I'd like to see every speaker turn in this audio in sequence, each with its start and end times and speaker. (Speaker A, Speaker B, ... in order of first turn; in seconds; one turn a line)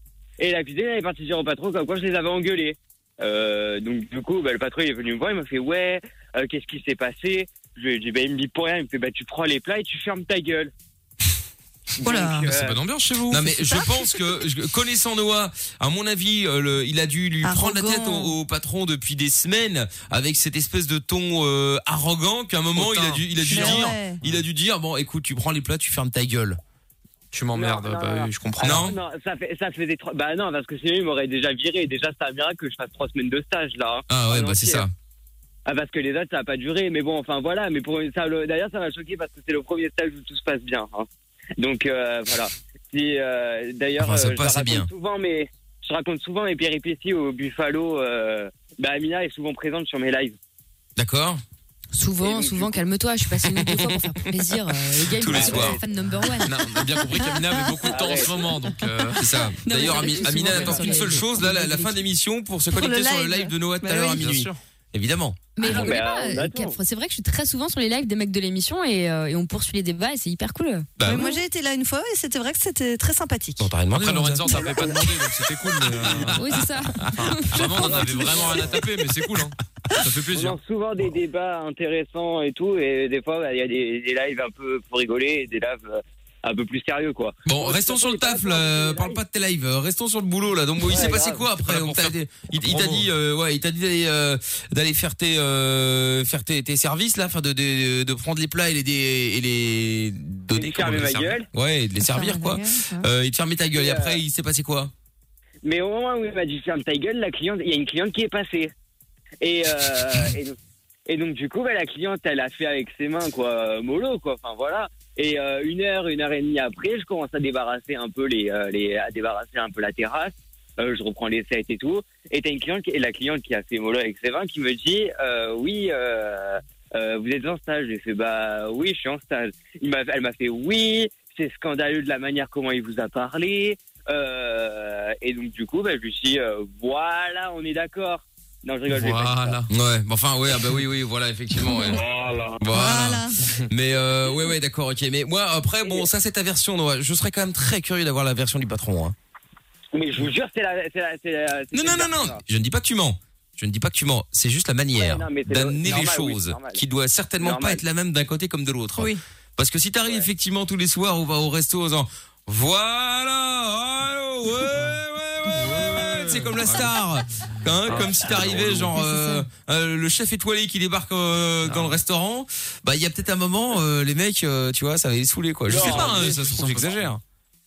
Speaker A: 0.4-10.7
Speaker A: 12.0-12.8
Speaker B: 12.0-12.5
Speaker C: 12.5-13.5
Speaker D: 13.3-26.6
Speaker B: 13.4-14.3
Speaker B: 17.4-18.3
Speaker C: 22.8-24.4
Speaker B: 23.4-24.2
Speaker C: 27.3-28.9
Speaker A: 27.5-34.8
Speaker D: 28.6-28.9
Speaker D: 34.1-34.9
Speaker A: 35.6-41.1
Speaker A: 41.6-50.3
Speaker D: 44.0-44.9
Speaker D: 51.0-51.4
Speaker E: 51.9-56.5
Speaker A: 52.2-52.8
Speaker D: 53.5-54.0
Speaker D: 55.1-55.8
Speaker A: 55.3-55.8
Speaker C: 56.4-59.2
Speaker B: 57.1-57.8
Speaker A: 57.8-58.4
Speaker B: 58.6-59.0
Speaker D: 59.1-65.5
Speaker E: 59.6-62.0
Speaker B: 60.1-61.1
Speaker C: 60.5-60.9
Speaker B: 62.7-64.3
Speaker C: 64.1-64.6
Speaker E: 65.5-70.9
Speaker A: 65.6-66.7
Speaker D: 71.0-71.3
Speaker B: 71.0-73.7
Speaker D: 73.6-74.8
Speaker C: 73.8-76.4
Speaker A: 74.5-75.0
Speaker D: 76.0-76.3
Speaker E: 76.3-77.6
Speaker C: 77.1-80.6
Speaker A: 77.8-78.8
Speaker A: 80.3-89.2
Speaker D: 87.5-104.9
Speaker A: 90.9-91.4
Speaker C: 91.5-93.1
Speaker A: 100.5-101.5
Speaker B: 102.0-103.1
Speaker A: 103.7-104.2
Speaker A: 105.6-108.7
Speaker A: 109.4-110.5
Speaker A: 111.1-139.6
Speaker C: 138.9-139.7
Speaker D: 139.7-142.0
Speaker D: 142.6-149.1
Speaker B: 142.7-143.4
Speaker A: 149.9-152.4
Speaker D: 151.7-177.2
Speaker A: 154.9-156.8
Speaker A: 157.4-157.8
Speaker C: 165.6-166.9
Speaker C: 167.6-168.9
Speaker E: 168.9-169.4
Speaker C: 171.6-172.0
Speaker C: 175.7-177.1
Speaker A: 175.7-176.2